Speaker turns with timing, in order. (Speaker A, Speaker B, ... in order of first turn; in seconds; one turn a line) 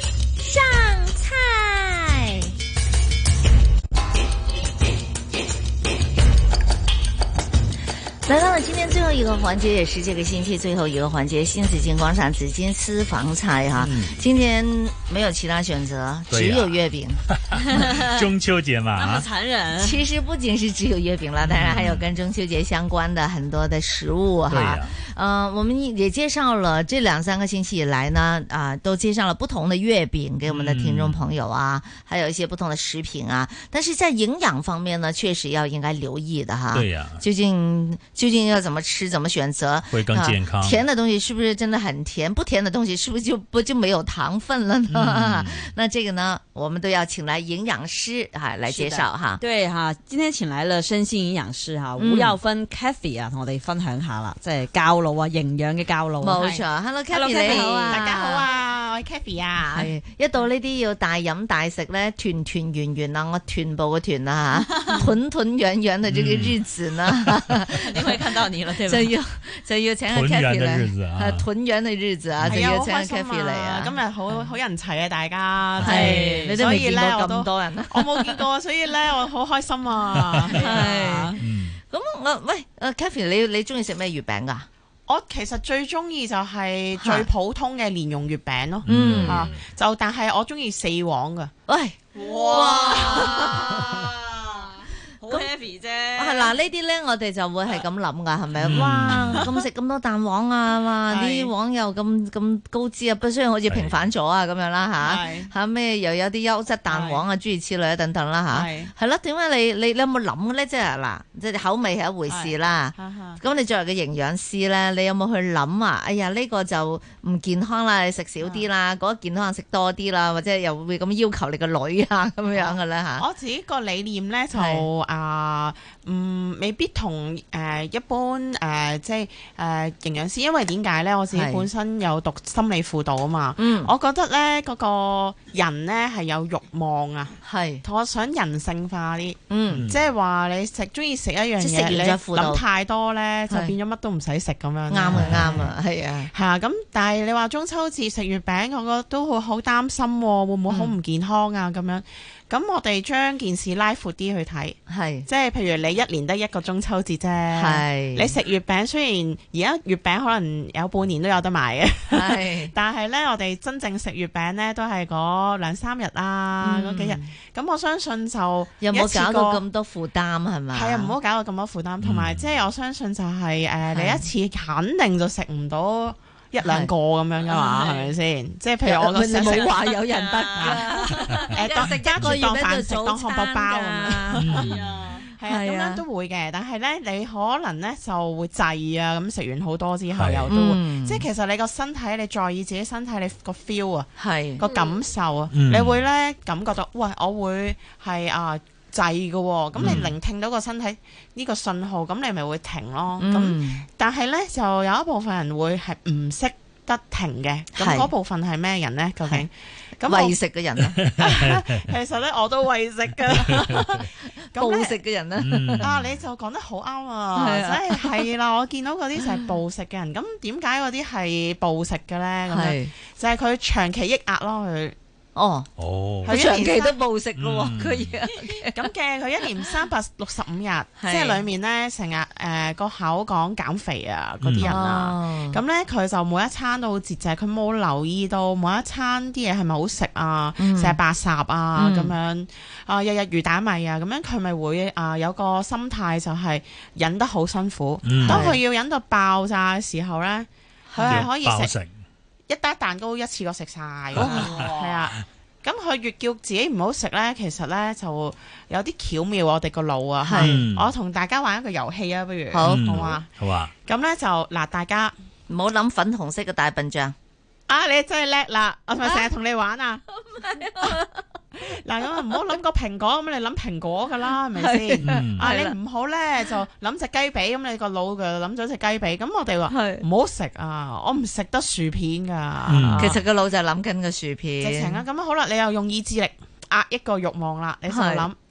Speaker A: 0.4-2.5
Speaker A: 8.3-17.2
Speaker B: 13.8-14.2
Speaker B: 16.3-19.3
Speaker C: 17.5-18.2
Speaker C: 18.9-20.0
Speaker A: 19.8-49.4
Speaker B: 21.4-22.1
Speaker B: 24.5-25.0
Speaker B: 30.5-31.2
Speaker B: 36.7-37.2
Speaker B: 39.9-40.8
Speaker B: 44.9-45.7
Speaker C: 48.7-58.0
Speaker A: 52.0-52.4
Speaker A: 56.2-58.5
Speaker D: 57.9-59.9
Speaker A: 59.7-68.1
Speaker C: 64.7-65.1
Speaker B: 66.1-66.6
Speaker C: 67.7-69.2
Speaker A: 68.8-74.4
Speaker B: 70.1-71.5
Speaker B: 72.4-72.7
Speaker D: 72.5-80.7
Speaker A: 75.8-78.4
Speaker C: 75.8-76.6
Speaker C: 80.5-81.4
Speaker A: 80.5-84.7
Speaker B: 81.4-81.8
Speaker D: 85.1-91.5
Speaker A: 87.0-87.3
Speaker B: 88.8-89.6
Speaker A: 88.9-89.5
Speaker A: 91.7-93.8
Speaker C: 92.2-96.5
Speaker A: 96.2-123.3
Speaker B: 98.6-99.5
Speaker D: 101.1-101.5
Speaker B: 103.7-104.1
Speaker D: 105.0-105.5
Speaker D: 106.9-107.2
Speaker D: 108.5-108.9
Speaker D: 112.3-113.4
Speaker D: 118.4-118.7
Speaker D: 122.5-145.7
Speaker A: 124.5-124.9
Speaker A: 131.3-131.7
Speaker A: 133.6-133.9
Speaker A: 137.4-137.8
Speaker A: 139.5-139.9
Speaker B: 139.7-140.1
Speaker A: 141.6-142.6
Speaker A: 143.5-143.8
Speaker A: 144.9-146.3
Speaker B: 145.1-145.5
Speaker D: 146.3-169.6
Speaker A: 150.7-150.9
Speaker A: 154.9-155.3
Speaker A: 157.5-158.3
Speaker A: 162.1-162.7
Speaker A: 166.6-167.3
Speaker A: 168.8-171.1
Speaker D: 170.7-179.8
Speaker B: 172.0-172.7
Speaker A: 173.9-174.3
Speaker A: 176.6-176.9
Speaker C: 177.4-178.1
Speaker A: 178.8-184.6
Speaker C: 179.3-181.6
Speaker D: 180.6-180.9
Speaker D: 181.5-184.7
Speaker B: 184.4-184.8
Speaker C: 184.5-185.3
Speaker D: 185.2-210.4
Speaker A: 185.4-186.0
Speaker B: 190.1-190.5
Speaker A: 190.5-191.3
Speaker A: 194.2-194.7
Speaker B: 195.5-196.0
Speaker B: 199.8-200.1
Speaker A: 199.8-200.1
Speaker A: 203.2-203.8
Speaker A: 207.8-208.1
Speaker A: 210.1-211.0
Speaker B: 211.0-211.6
Speaker D: 211.2-215.0
Speaker B: 213.4-213.8
Speaker A: 214.2-215.9
Speaker B: 215.4-216.2
Speaker D: 215.8-224.9
Speaker A: 217.3-218.3
Speaker A: 222.5-222.9
Speaker A: 225.3-225.7
Speaker B: 225.8-226.4
Speaker D: 226.2-227.0
Speaker A: 226.3-228.8
Speaker B: 227.4-228.2
Speaker D: 228.7-251.7
Speaker A: 231.0-231.4
Speaker B: 234.4-234.7
Speaker A: 234.6-235.6
Speaker A: 240.6-241.0
Speaker A: 241.8-242.1
Speaker B: 248.0-248.5
Speaker A: 248.2-248.6
Speaker A: 251.0-251.3
Speaker B: 251.1-251.9
Speaker D: 252.5-263.3
Speaker B: 254.2-254.6
Speaker A: 254.2-254.5
Speaker C: 254.3-255.0
Speaker A: 260.2-260.6
Speaker B: 260.4-260.9
Speaker A: 262.5-263.2
Speaker B: 262.6-263.7
Speaker D: 263.9-265.1
Speaker A: 265.5-267.1
Speaker D: 267.7-270.1
Speaker A: 270.2-271.2
Speaker D: 271.6-283.2
Speaker A: 274.6-275.7
Speaker B: 275.0-275.5
Speaker A: 279.7-280.0
Speaker B: 282.7-283.2
Speaker A: 283.0-285.0
Speaker D: 284.6-288.4
Speaker A: 287.9-288.3